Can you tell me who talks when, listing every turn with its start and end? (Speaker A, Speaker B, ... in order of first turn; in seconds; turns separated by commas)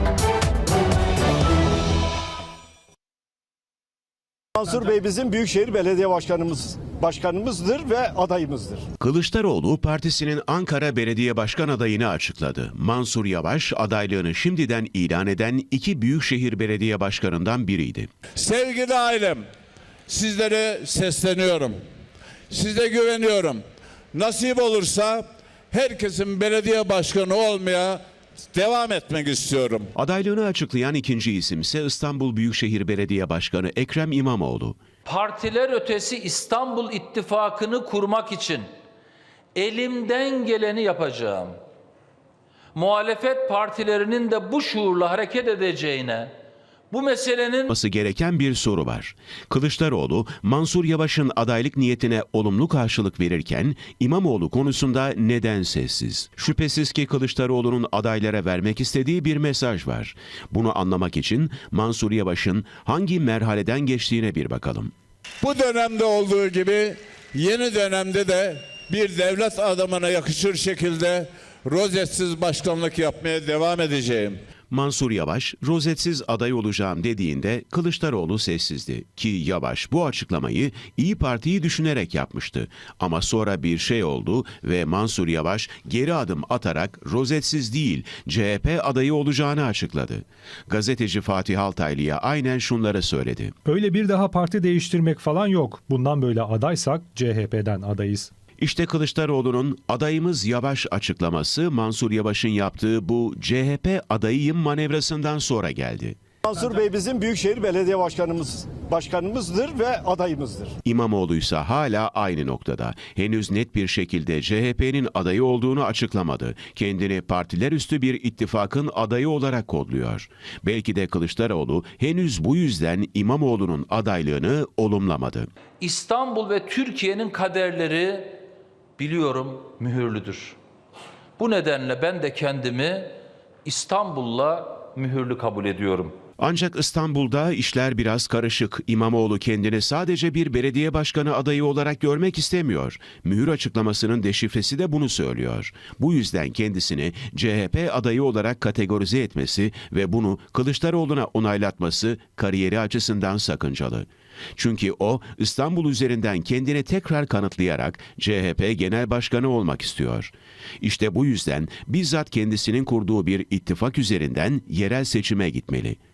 Speaker A: 4.5-8.8, Speaker B: 9.0-18.1, Speaker C: 18.3-19.4, Speaker C: 20.1-21.8, Speaker C: 22.5-29.9, Speaker B: 29.9-34.8, Speaker D: 35.0-38.7, Speaker D: 39.5-41.6, Speaker D: 42.7-46.3, Speaker D: 46.9-47.7, Speaker B: 47.7-64.9, Speaker C: 65.4-74.4, Speaker B: 74.7-93.5, Speaker E: 93.7-98.3, Speaker B: 98.6-106.2, Speaker A: 106.4-110.7, Speaker B: 110.8-125.5, Speaker D: 125.8-128.4, Speaker D: 129.0-130.6, Speaker D: 131.4-136.1, Speaker B: 136.4-166.0